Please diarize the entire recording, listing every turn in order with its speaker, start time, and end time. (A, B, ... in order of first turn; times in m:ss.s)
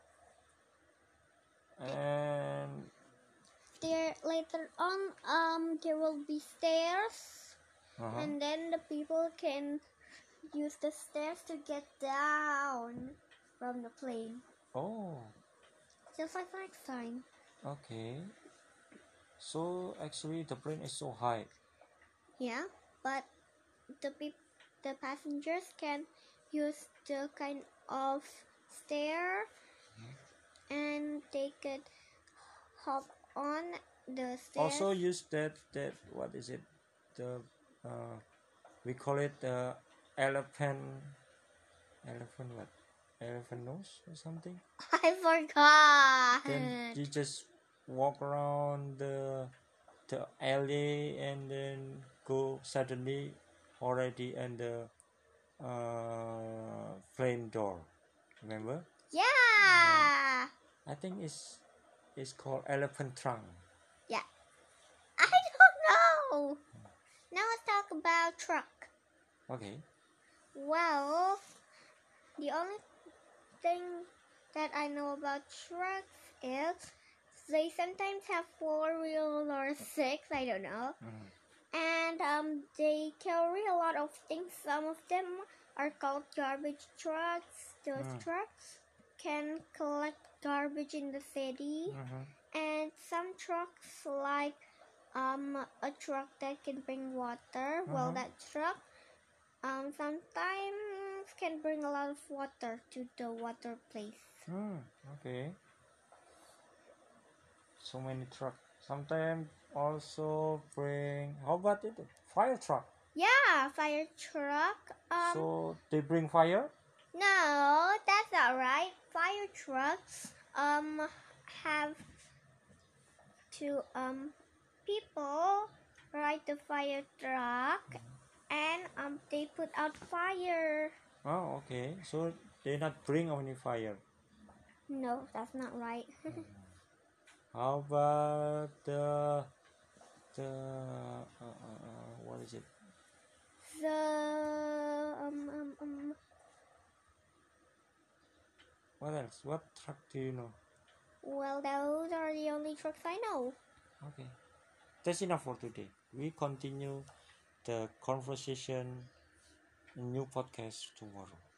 0:01.8-0:02.9 A
0:03.8-0:07.6 B
0:08.0-0:08.4 A
0:08.1-0:09.8 B
0:10.5-0:14.4 B
0:14.7-0:15.4 A
0:16.1-0:17.3 B
0:17.6-0:18.3 A
0:19.4-0:21.5 A
0:22.4-0:23.3 B
0:23.9-0:29.5 B
0:30.7-0:31.9 B
0:32.8-0:34.9 B
0:34.6-0:38.2 A
0:38.8-0:41.2 A
0:42.0-0:44.6 A
0:44.8-0:47.0 B
0:46.4-0:49.5 A
0:50.1-0:54.9 A
0:55.6-0:57.9 A
0:58.4-0:58.9 A
0:59.1-1:00.5 B
0:59.6-1:00.1 A
1:00.9-1:01.6 A
1:02.2-1:03.6 A
1:05.2-1:06.6 B
1:07.3-1:08.9 B
1:09.5-1:09.8 A
1:10.6-1:11.4 B
1:12.4-1:12.8 B
1:13.6-1:21.0 B
1:21.0-1:21.3 A
1:21.7-1:32.0 B
1:28.0-1:28.3 A
1:31.9-1:32.3 A
1:32.5-1:38.8 B
1:37.9-1:38.2 A
1:39.6-1:44.5 B
1:44.5-1:45.6 A
1:47.8-1:52.9 A
1:53.2-1:55.5 B
1:55.2-1:56.7 A
1:57.1-2:02.2 B
2:03.5-2:11.0 B
2:11.2-2:14.0 A
2:14.9-2:16.4 B
2:16.3-2:16.8 A
2:17.5-2:19.5 A
2:20.3-2:22.7 A
2:23.6-2:26.2 B
2:29.0-2:30.6 A
2:31.2-2:33.6 B
2:34.0-2:34.4 A
2:35.0-2:37.1 A
2:37.6-2:39.1 A
2:40.0-2:41.4 A